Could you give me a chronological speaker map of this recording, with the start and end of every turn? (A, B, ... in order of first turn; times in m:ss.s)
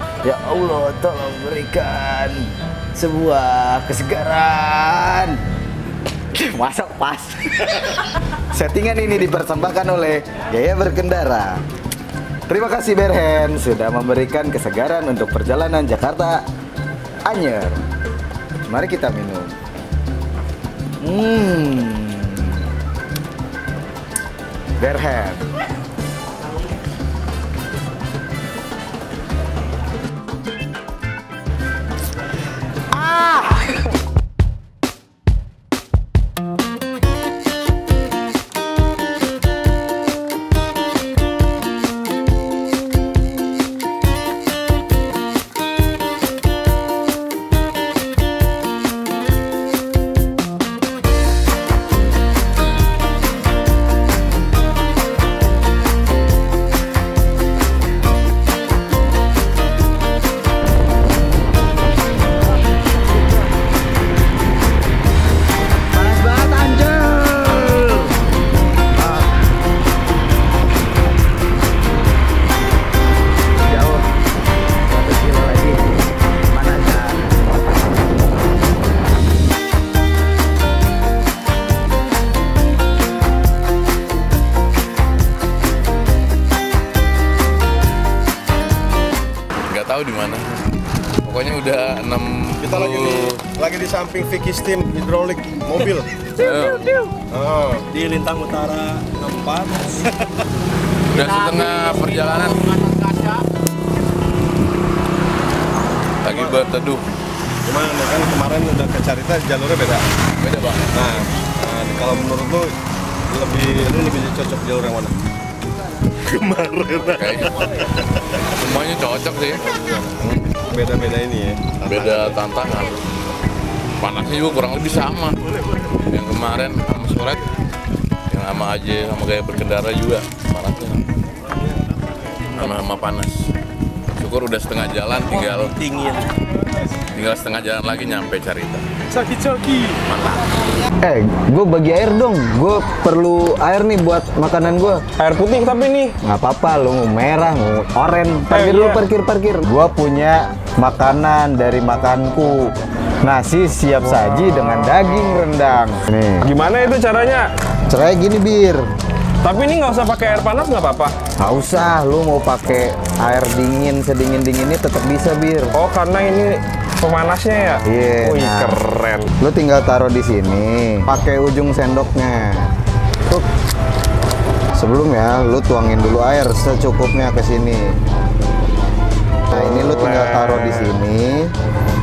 0:00.2-0:05.4 A
0:06.3-0:11.6 A
0:12.5-0:16.4 A
0:17.2-0:17.8 A
0:18.7-0:19.6 A
0:21.0-0:22.6 A
0:24.8-0:25.5 A
0:32.9-0:33.7 A
1:06.0-1:08.1 A
1:09.0-1:09.4 A
1:13.6-1:14.0 A
1:14.9-1:15.8 A
1:16.5-1:17.3 A
1:29.7-1:30.5 B
1:31.2-1:33.4 B
1:32.6-1:36.1 C
1:36.4-1:37.0 B
1:37.3-1:37.9 C
1:37.9-1:39.9 D
1:41.1-1:43.1 B
1:46.2-1:47.1 B
1:46.3-1:46.6 C
1:47.6-1:50.0 C
1:50.4-1:50.9 B
1:50.9-1:52.7 C
1:53.3-1:55.1 C
1:56.3-1:57.2 C
1:57.2-1:57.5 B
1:58.6-2:00.5 B
2:00.7-2:02.4 C
2:01.9-2:03.0 B
2:04.0-2:05.4 B
2:06.1-2:07.4 B
2:08.3-2:11.1 B
2:12.6-2:13.4 B
2:14.2-2:15.8 B
2:15.3-2:16.2 D
2:17.1-2:18.8 B
2:19.4-2:19.8 D
2:20.1-2:20.4 B
2:21.0-2:25.0 A
2:25.2-2:26.1 E
2:26.2-2:36.5 A
2:28.5-2:29.0 E
2:34.1-2:34.4 E
2:36.4-2:37.4 E
2:37.9-2:38.8 A
2:39.4-2:41.1 E
2:41.4-2:45.7 A
2:45.8-2:49.3 E
2:47.9-2:48.8 A
2:49.4-2:52.7 A
2:54.8-2:58.0 A
2:59.5-3:01.5 A